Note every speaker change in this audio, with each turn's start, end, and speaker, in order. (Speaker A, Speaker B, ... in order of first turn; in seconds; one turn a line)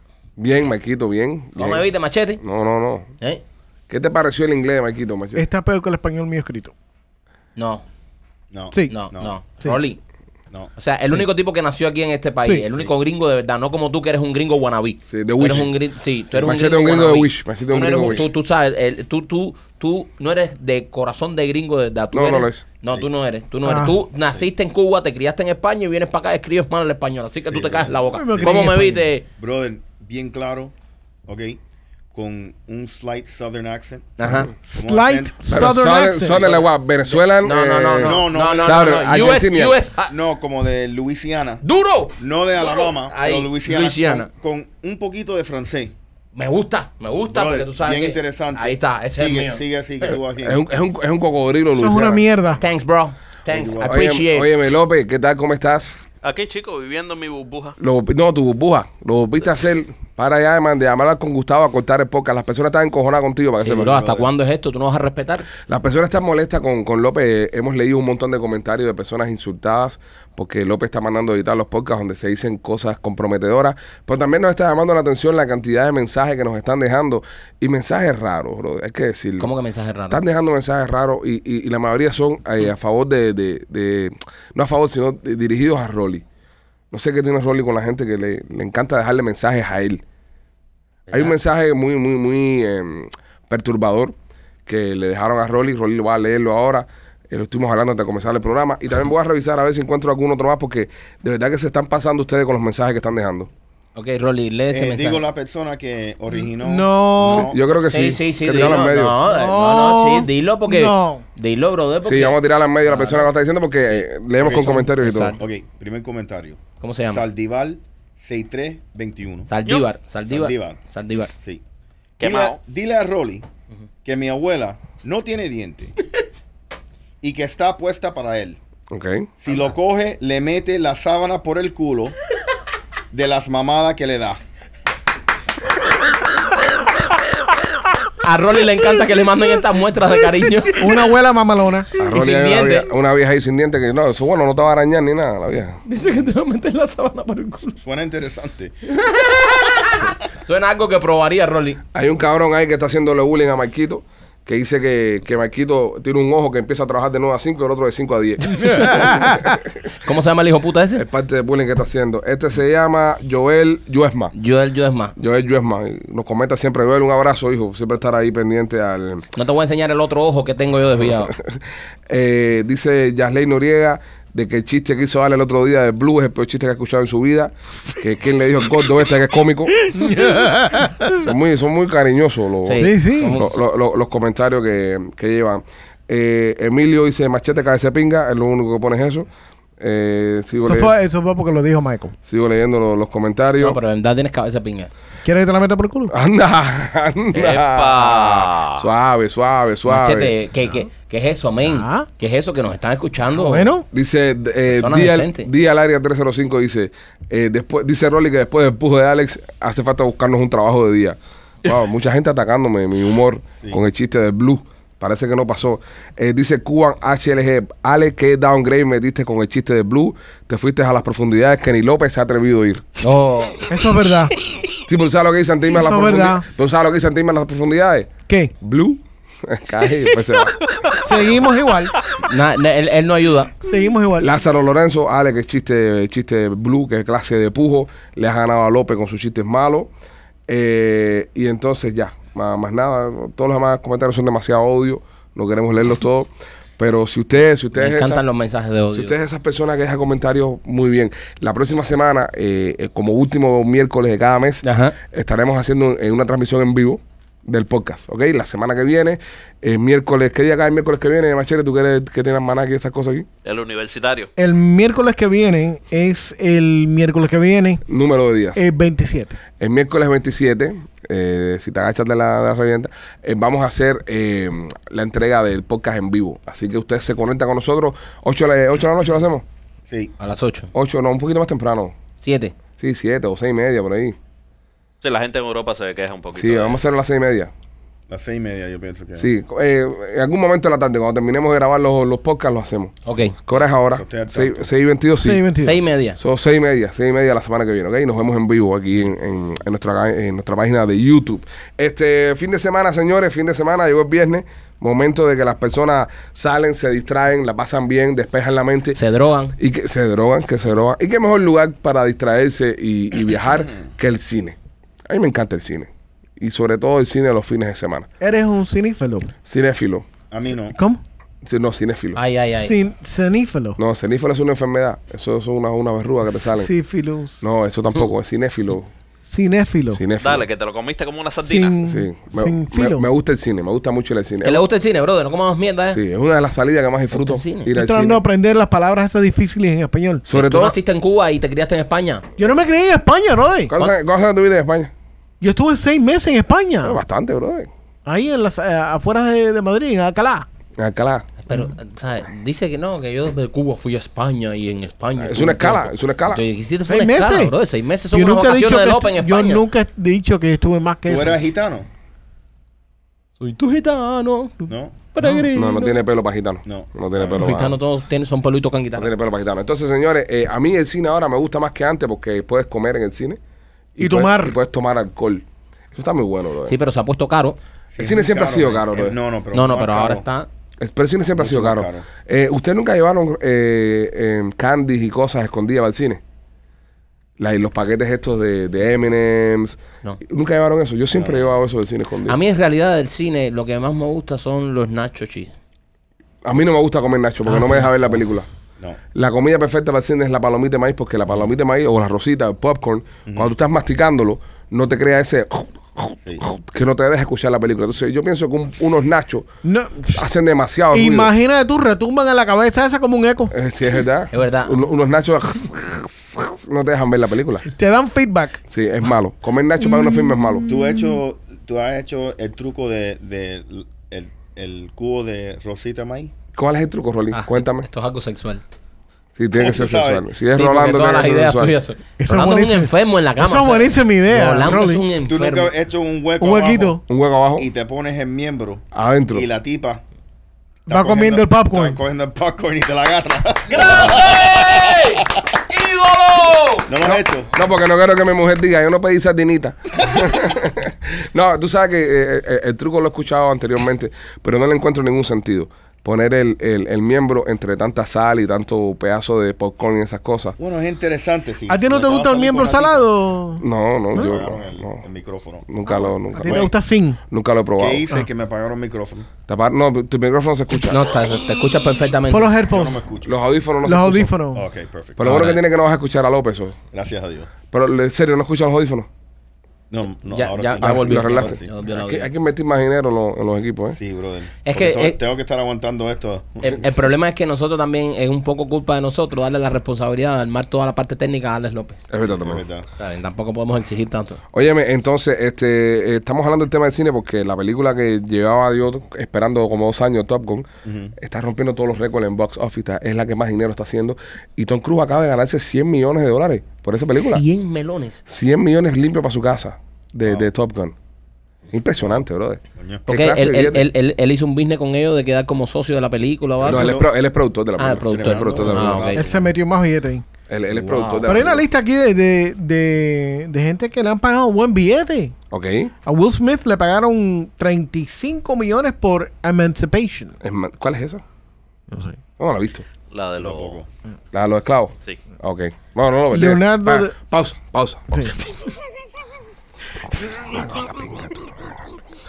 Speaker A: 0.4-1.9
Speaker B: 1.6-2.4
Speaker A: 2.4-3.1
Speaker A: 3.9-5.5
Speaker C: 5.3-6.7
Speaker B: 7.6-7.8
Speaker D: 8.5-9.3
Speaker B: 8.9-10.0
Speaker B: 10.8-29.3
Speaker C: 12.4-12.7
Speaker A: 15.1-15.7
Speaker A: 16.3-18.3
Speaker D: 18.0-18.3
Speaker A: 22.1-22.6
Speaker C: 23.6-24.0
Speaker D: 27.5-28.7
Speaker C: 28.1-29.1
Speaker D: 29.4-30.7
Speaker D: 31.3-31.6
Speaker D: 32.1-34.1
Speaker B: 34.2-34.5
Speaker C: 34.6-36.5
Speaker D: 34.7-35.7
Speaker A: 35.5-39.8
Speaker B: 37.4-40.1
Speaker D: 38.0-39.4
Speaker D: 40.1-41.6
Speaker B: 41.6-44.3
Speaker D: 42.2-45.9
Speaker B: 46.4-49.6
Speaker D: 47.3-50.7
Speaker A: 50.4-52.3
Speaker C: 51.7-52.6
Speaker B: 52.6-54.5
Speaker D: 53.5-54.0
Speaker A: 53.8-56.0
Speaker E: 56.2-57.8
Speaker A: 57.8-64.0
Speaker B: 63.6-65.5
Speaker D: 63.6-64.3
Speaker A: 65.7-79.5
Speaker B: 79.4-80.2
Speaker A: 80.1-86.2
Speaker A: 86.9-90.0
Speaker D: 91.1-91.3
Speaker A: 91.1-94.2
Speaker A: 94.7-103.5
Speaker B: 104.0-105.2
Speaker D: 104.7-107.6
Speaker C: 106.5-107.5
Speaker A: 107.2-109.2
Speaker B: 107.9-113.3
Speaker C: 109.2-111.2
Speaker A: 112.0-115.4
Speaker D: 114.4-119.5
Speaker B: 116.8-117.2
Speaker B: 119.5-121.3
Speaker D: 120.3-120.8
Speaker D: 121.3-121.6
Speaker E: 122.2-122.6
Speaker D: 122.2-123.5
Speaker D: 124.0-126.0
Speaker D: 127.2-128.6
Speaker A: 128.9-129.3
Speaker D: 129.4-132.2
Speaker D: 133.1-134.4
Speaker B: 138.2-140.8
Speaker C: 140.8-141.9
Speaker A: 142.0-145.8
Speaker B: 142.1-142.9
Speaker B: 145.8-147.8
Speaker D: 147.8-148.7
Speaker B: 148.9-151.8
Speaker A: 151.9-159.7
Speaker C: 158.6-159.4
Speaker B: 160.0-161.1
Speaker A: 161.0-164.3
Speaker B: 164.3-165.2
Speaker A: 165.2-169.2
Speaker B: 169.3-171.3
Speaker A: 171.1-179.7
Speaker C: 179.9-181.3
Speaker A: 181.1-189.3
Speaker B: 182.7-183.6
Speaker C: 182.7-183.4
Speaker A: 189.8-190.9
Speaker C: 190.6-192.1
Speaker A: 192.2-193.8
Speaker B: 193.6-194.9
Speaker C: 195.2-196.1
Speaker A: 196.1-200.3
Speaker E: 197.3-198.8
Speaker B: 199.9-203.7
Speaker C: 201.6-202.1
Speaker C: 203.3-203.9
Speaker A: 203.9-222.8
Speaker B: 204.8-205.5
Speaker B: 223.0-223.6
Speaker C: 223.7-224.3
Speaker A: 224.7-230.6
Speaker C: 225.7-226.5
Speaker C: 228.3-228.5
Speaker C: 231.0-232.0
Speaker B: 232.2-233.6
Speaker C: 233.7-234.3
Speaker A: 234.2-239.9
Speaker A: 240.5-248.2
Speaker B: 247.8-249.2
Speaker A: 248.9-263.3
Speaker B: 254.6-255.0
Speaker E: 263.4-264.3
Speaker C: 264.4-267.8
Speaker A: 267.9-268.6
Speaker C: 268.6-269.4
Speaker A: 269.6-279.4
Speaker D: 279.9-280.1
Speaker B: 280.2-280.7
Speaker A: 280.7-281.9
Speaker B: 282.2-282.5
Speaker A: 282.8-284.2
Speaker E: 285.0-286.8
Speaker A: 286.4-287.5
Speaker D: 288.1-289.3
Speaker A: 289.2-292.9
Speaker B: 293.1-293.4
Speaker A: 293.4-295.4
Speaker D: 293.9-294.7
Speaker C: 295.1-295.8
Speaker B: 295.6-296.2
Speaker A: 296.2-309.0
Speaker B: 308.9-309.6
Speaker A: 309.6-318.1
Speaker C: 318.2-319.3
Speaker A: 319.4-320.1
Speaker D: 320.3-320.8
Speaker C: 320.5-321.0
Speaker A: 321.4-322.2
Speaker B: 322.2-322.8
Speaker C: 322.5-323.8
Speaker A: 323.8-326.7
Speaker C: 326.3-327.5
Speaker A: 327.4-328.9
Speaker C: 329.2-330.0
Speaker A: 329.9-330.5
Speaker E: 330.2-331.8
Speaker C: 331.4-333.1
Speaker A: 331.8-334.6
Speaker B: 334.4-336.0
Speaker A: 335.9-338.2
Speaker B: 337.1-337.7
Speaker C: 337.7-340.3
Speaker A: 340.3-340.8
Speaker B: 340.3-342.2
Speaker C: 342.4-343.7
Speaker A: 343.7-344.9
Speaker C: 345.4-347.0
Speaker A: 346.8-347.7
Speaker C: 348.1-350.5
Speaker A: 350.8-351.3
Speaker B: 351.5-359.6
Speaker A: 355.2-356.4
Speaker C: 356.9-357.6
Speaker C: 358.1-361.4
Speaker D: 361.1-361.9
Speaker B: 363.4-365.6
Speaker D: 364.7-365.0
Speaker C: 365.2-365.9
Speaker A: 365.5-367.8
Speaker D: 366.6-367.6
Speaker B: 367.4-369.1
Speaker A: 369.0-373.4
Speaker A: 373.9-376.8
Speaker C: 374.0-374.5
Speaker B: 376.7-377.6
Speaker D: 377.9-380.2
Speaker A: 378.0-379.2
Speaker B: 379.5-380.5
Speaker A: 380.8-386.2
Speaker D: 381.4-382.1
Speaker A: 387.4-392.4
Speaker D: 391.1-391.4
Speaker B: 392.3-395.5
Speaker A: 396.4-398.5
Speaker C: 397.5-397.9
Speaker A: 399.1-409.5
Speaker C: 409.6-410.2
Speaker A: 410.1-411.3
Speaker C: 410.9-413.5
Speaker A: 413.5-417.7
Speaker B: 414.3-414.8
Speaker C: 417.8-418.6
Speaker A: 418.7-420.7
Speaker C: 419.9-421.2
Speaker D: 420.7-426.3
Speaker A: 426.5-427.9
Speaker B: 427.3-428.6
Speaker A: 429.4-431.8
Speaker D: 429.5-430.2
Speaker B: 430.5-435.7
Speaker C: 432.2-435.1
Speaker D: 435.2-437.0
Speaker C: 436.4-437.0
Speaker A: 437.1-437.7
Speaker D: 437.6-440.0
Speaker A: 438.9-439.5
Speaker D: 440.9-445.2
Speaker C: 440.9-442.0
Speaker B: 443.7-447.0
Speaker D: 446.9-447.5
Speaker A: 447.0-460.6
Speaker D: 460.6-463.1
Speaker C: 461.7-463.6
Speaker A: 463.6-465.0
Speaker D: 464.1-465.7
Speaker A: 465.7-466.7
Speaker C: 466.3-467.2
Speaker D: 466.4-466.7
Speaker A: 467.3-468.1
Speaker D: 467.8-469.3
Speaker A: 469.5-471.0
Speaker B: 470.9-472.6
Speaker C: 472.3-473.0
Speaker D: 472.6-473.4
Speaker A: 473.3-474.4
Speaker C: 473.8-474.7
Speaker D: 474.5-475.2
Speaker A: 475.2-476.8
Speaker B: 475.2-475.6
Speaker D: 476.9-477.5
Speaker A: 477.7-479.1
Speaker D: 479.9-481.7
Speaker B: 480.2-482.3
Speaker A: 480.8-484.0
Speaker D: 483.9-487.0
Speaker B: 484.6-485.2
Speaker B: 486.6-492.0
Speaker A: 492.1-492.6
Speaker D: 492.2-492.9
Speaker B: 493.0-494.4
Speaker A: 494.5-507.4
Speaker D: 500.9-501.1
Speaker B: 507.1-508.2
Speaker A: 508.3-510.9
Speaker A: 511.7-513.9
Speaker D: 512.8-513.0
Speaker B: 513.1-517.0
Speaker D: 516.6-517.1
Speaker A: 516.6-519.1
Speaker B: 517.8-519.2
Speaker D: 518.1-519.5
Speaker C: 519.1-520.2
Speaker A: 520.5-521.7
Speaker B: 520.7-521.3
Speaker C: 521.3-525.4
Speaker A: 525.5-525.9
Speaker C: 526.1-530.4
Speaker A: 530.4-531.2
Speaker C: 531.9-532.2
Speaker A: 532.4-532.9
Speaker E: 533.1-533.8
Speaker D: 533.4-533.9
Speaker A: 534.3-538.3
Speaker C: 536.3-537.1
Speaker C: 538.1-538.4
Speaker A: 540.1-541.8